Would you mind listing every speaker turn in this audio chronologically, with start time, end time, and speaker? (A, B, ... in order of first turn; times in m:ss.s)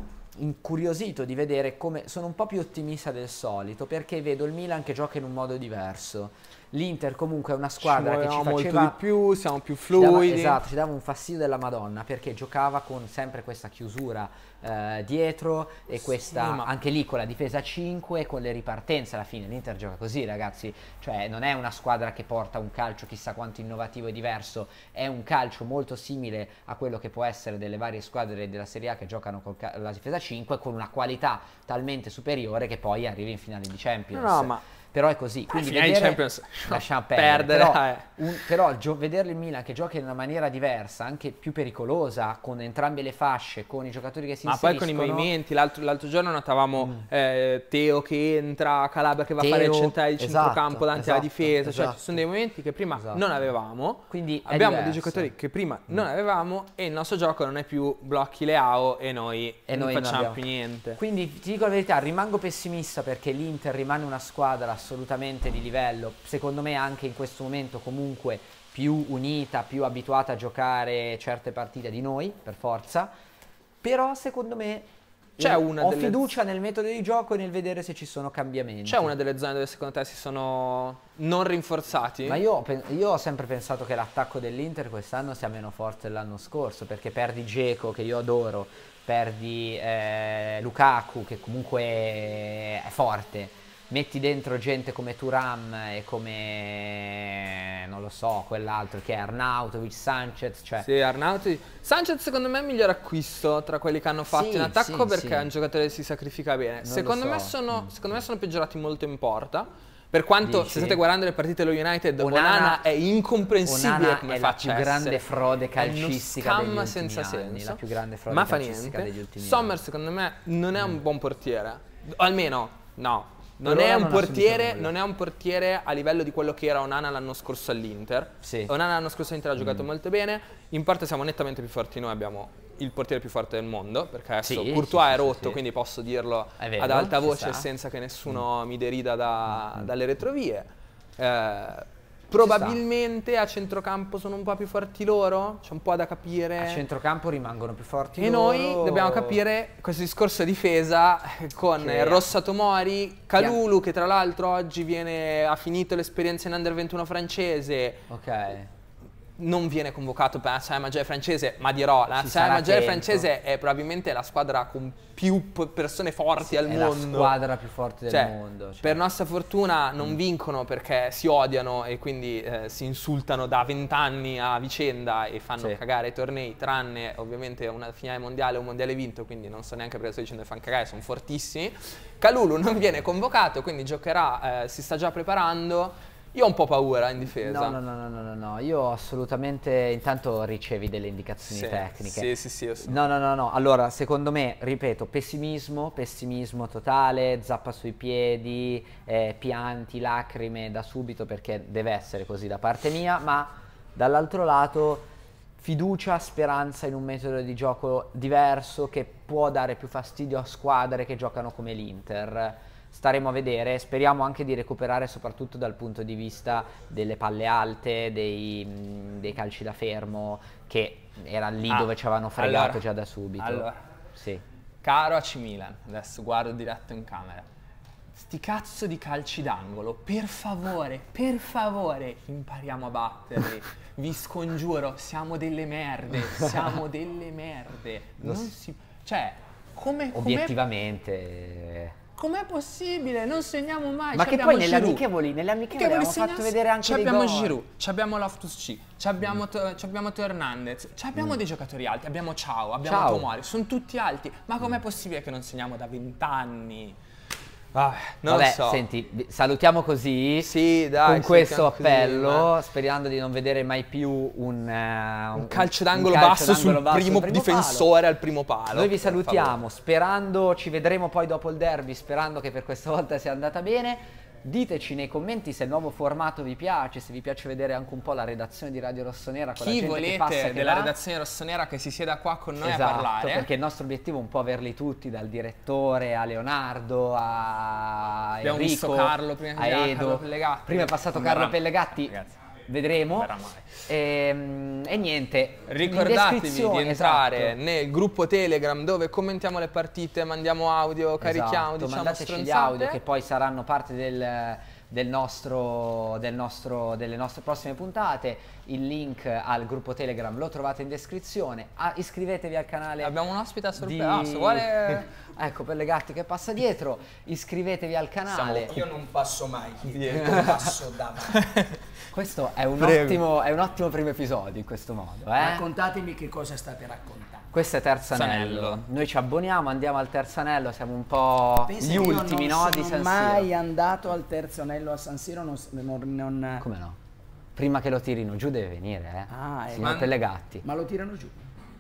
0:00.4-0:09.0 A
0:07.8-0:10.6 B
0:09.9-0:45.3 A
0:16.2-0:16.7 B
0:34.1-0:34.6 B
0:35.5-0:38.2 B
0:44.4-1:01.0 B
0:49.4-0:52.2 A
0:53.0-0:53.2 A
0:54.1-0:55.3 A
0:59.7-1:00.4 A
1:01.0-1:13.1 A
1:13.8-1:19.1 A
1:15.4-1:16.3 B
1:18.8-1:22.4 B
1:22.2-1:40.9 A
1:40.8-1:55.2 B
1:44.3-1:45.5 A
1:46.8-1:47.9 A
1:50.4-1:51.0 A
1:52.2-1:52.8 A
1:53.6-1:59.8 A
1:55.8-2:26.8 B
2:03.6-2:04.9 A
2:08.4-2:08.7 A
2:09.6-2:09.9 A
2:14.4-2:15.6 A
2:16.6-2:17.7 A
2:22.4-2:22.8 A
2:26.6-2:29.4 A
2:28.2-2:38.1 B
2:31.8-2:32.3 A
2:33.4-2:33.6 A
2:38.1-2:38.7 A
2:39.4-2:47.4 B
2:42.2-2:43.3 A
2:46.4-2:49.0 A
2:48.1-3:07.8 B
3:07.4-3:12.3 A
3:11.4-3:13.0 B
3:12.8-3:44.4 A
3:41.7-3:42.8 B
3:43.4-3:43.8 B
3:44.8-3:47.5 B
3:48.2-4:00.6 B
3:58.2-3:58.5 A
4:00.1-4:02.0 A
4:02.2-4:05.0 B
4:04.1-4:07.6 A
4:05.7-4:17.0 B
4:12.8-4:13.3 A
4:17.7-4:18.8 B
4:18.2-4:27.9 A
4:20.4-4:22.5 B
4:25.4-4:29.6 B
4:28.7-4:40.9 A
4:39.6-4:43.5 B
4:42.6-4:53.4 A
4:48.4-4:52.4 B
4:53.1-4:53.8 B
4:53.9-4:57.6 A
4:55.7-5:03.0 B
5:01.2-5:13.2 A
5:13.0-5:15.1 B
5:13.8-5:18.8 A
5:18.3-5:18.8 B
5:18.6-5:21.5 C
5:19.9-5:20.6 B
5:21.3-5:21.8 B
5:22.1-5:25.6 A
5:22.8-5:23.2 B
5:25.4-5:27.5 C
5:27.5-5:33.5 A
5:28.1-5:28.8 B
5:31.6-5:36.7 C
5:36.6-5:37.0 A
5:37.6-5:40.6 A
5:39.3-5:40.1 C
5:39.8-5:40.1 B
5:40.6-5:41.5 C